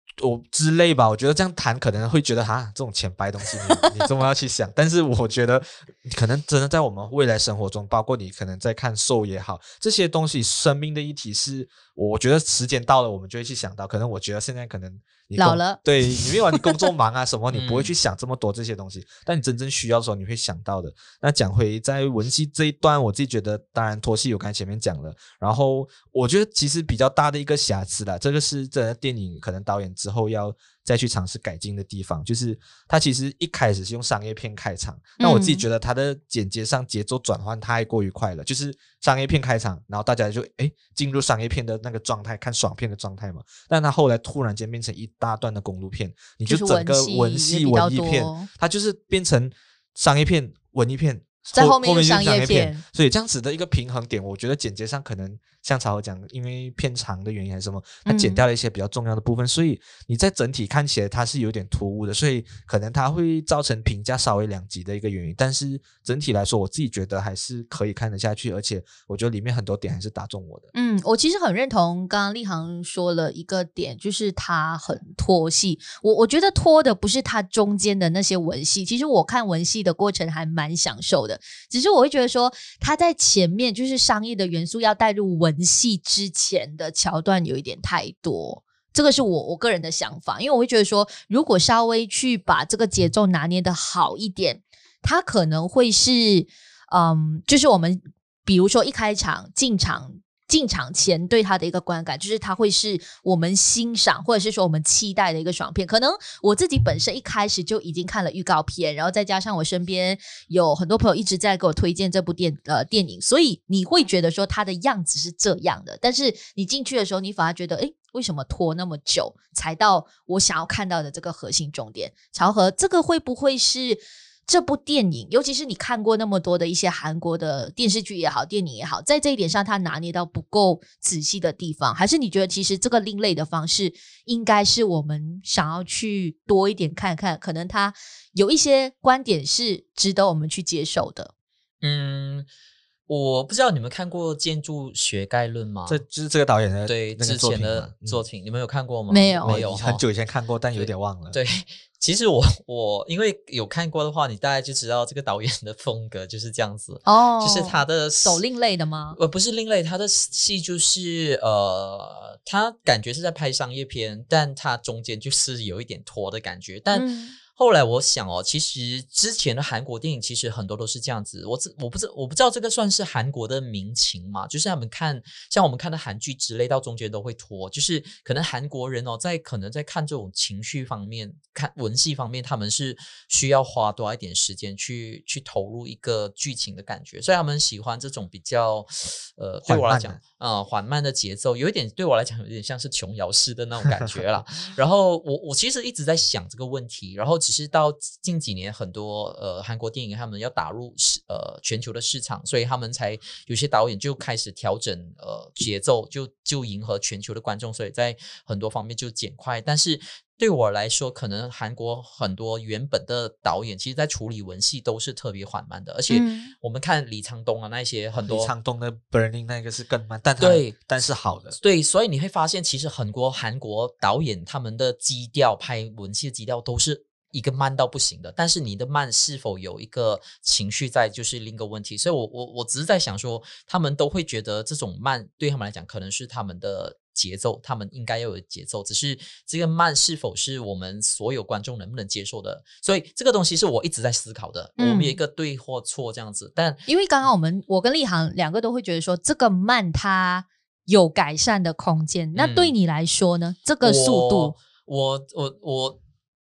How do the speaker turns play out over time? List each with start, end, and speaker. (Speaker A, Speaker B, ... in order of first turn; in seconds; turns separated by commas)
Speaker A: 0.2-70.7, Speaker B: 15.4-16.9, Speaker C: 17.5-17.9, Speaker B: 35.2-35.6, Speaker B: 46.5-48.5, Speaker B: 51.5-52.8, Speaker B: 58.0-58.4, Speaker B: 70.7-141.3, Speaker C: 141.8-142.5, Speaker C: 143.1-146.0, Speaker A: 145.9-148.2, Speaker C: 146.8-150.0, Speaker B: 149.1-149.6, Speaker A: 149.4-151.4, Speaker C: 150.7-158.4, Speaker B: 157.1-159.2, Speaker C: 159.1-218.5, Speaker B: 166.9-167.3, Speaker A: 189.7-190.2, Speaker B: 216.1-216.5, Speaker A: 218.2-221.6, Speaker C: 220.4-220.8, Speaker C: 221.5-246.8, Speaker B: 244.8-245.2, Speaker B: 246.9-254.5, Speaker C: 252.3-252.7, Speaker C: 253.8-256.0